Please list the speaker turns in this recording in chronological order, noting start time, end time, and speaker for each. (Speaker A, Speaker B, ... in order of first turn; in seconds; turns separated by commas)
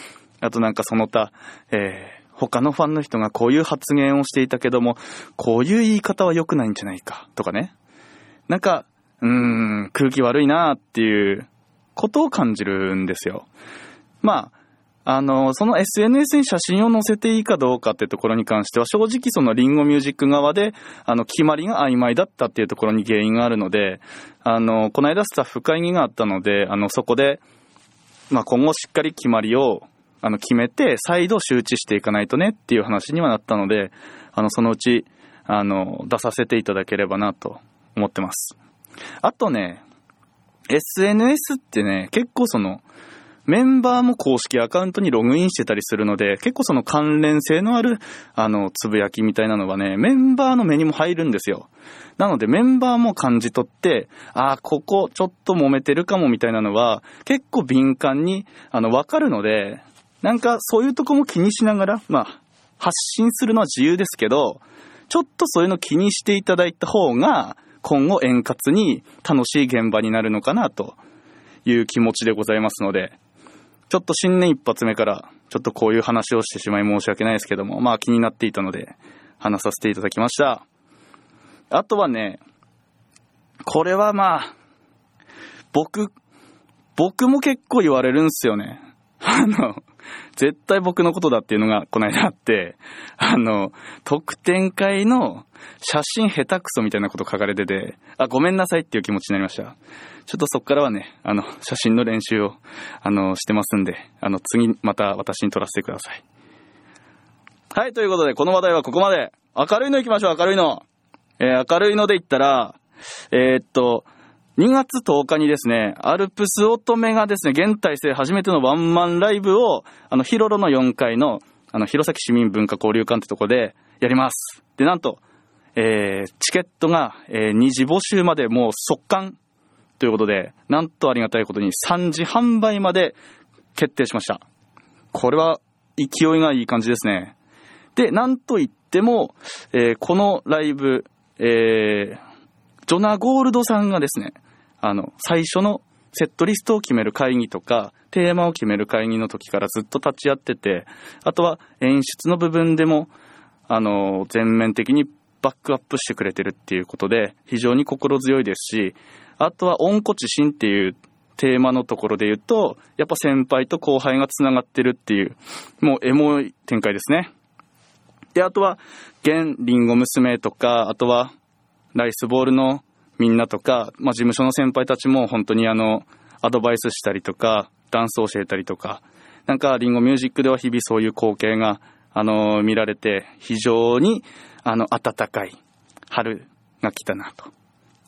Speaker A: 0.4-7.7, Speaker A: 8.5-13.5, Speaker A: 14.2-14.5, Speaker A: 15.1-27.4, Speaker A: 28.3-38.6, Speaker A: 39.2-39.8, Speaker A: 40.7-42.8, Speaker A: 43.5-71.0, Speaker A: 71.7-73.2, Speaker A: 73.9-80.6, Speaker A: 81.7-82.4, Speaker A: 83.7-84.5, Speaker A: 85.7-86.1, Speaker A: 87.0-89.8, Speaker A: 90.4-106.2, Speaker A: 107.7-110.8, Speaker A: 111.4-112.8, Speaker A: 113.3-125.2, Speaker A: 125.8-129.4, Speaker A: 130.0-133.2, Speaker A: 133.8-134.4, Speaker A: 135.1-137.3, Speaker A: 138.0-142.2, Speaker A: 142.9-153.1, Speaker A: 153.7-167.3, Speaker A: 168.3-171.3, Speaker A: 171.9-185.6, Speaker A: 186.1-187.5